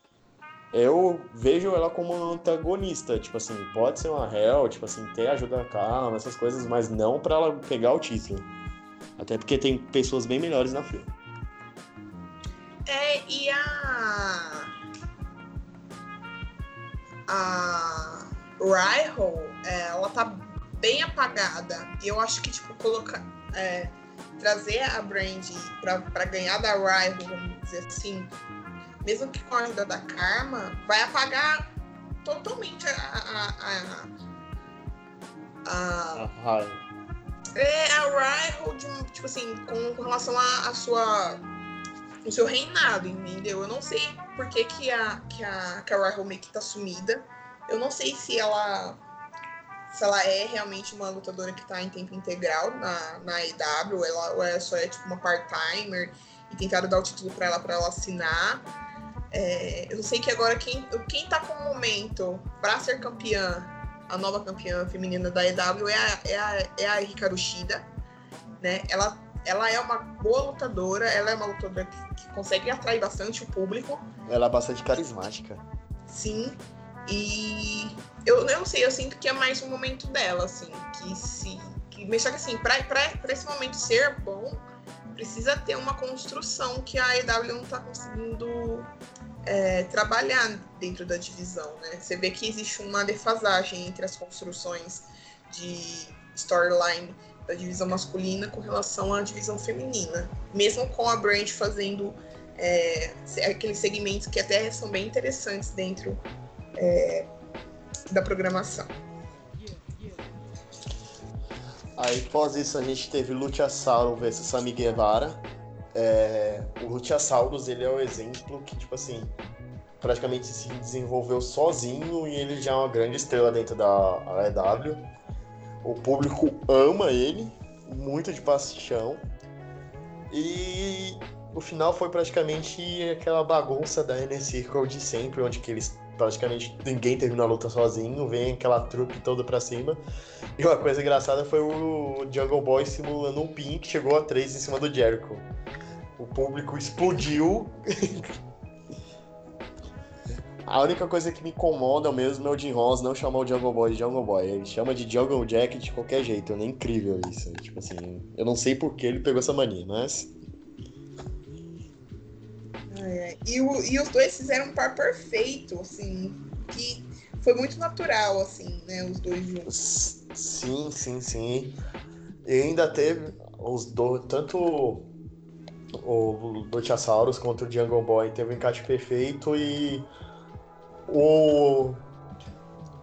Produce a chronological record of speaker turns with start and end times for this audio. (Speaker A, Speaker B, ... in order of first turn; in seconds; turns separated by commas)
Speaker A: 0.7-8.5, Speaker A: 9.2-11.1, Speaker B: 12.9-14.7, Speaker B: 17.3-28.3, Speaker B: 29.0-31.7, Speaker B: 32.2-34.1, Speaker B: 35.6-36.3, Speaker A: 36.1-36.8, Speaker B: 37.5-41.4, Speaker B: 42.2-49.0, Speaker B: 49.9-58.6, Speaker B: 59.3-67.9, Speaker B: 68.6-74.0, Speaker A: 74.2-75.6, Speaker B: 76.1-76.5, Speaker B: 77.1-84.6, Speaker B: 85.1-88.9, Speaker B: 89.4-106.2, Speaker B: 106.8-107.3, Speaker B: 108.1-108.9, Speaker A: 112.0-119.3, Speaker A: 120.0-125.1, Speaker A: 125.8-129.2, Speaker A: 130.3-140.0, Speaker A: 140.6-145.5, Speaker A: 146.2-148.3, Speaker A: 150.7-160.3, Speaker B: 162.9-169.7, Speaker A: 169.7-171.8, Speaker A: 172.4-175.1, Speaker A: 176.0-180.1, Speaker A: 181.1-182.0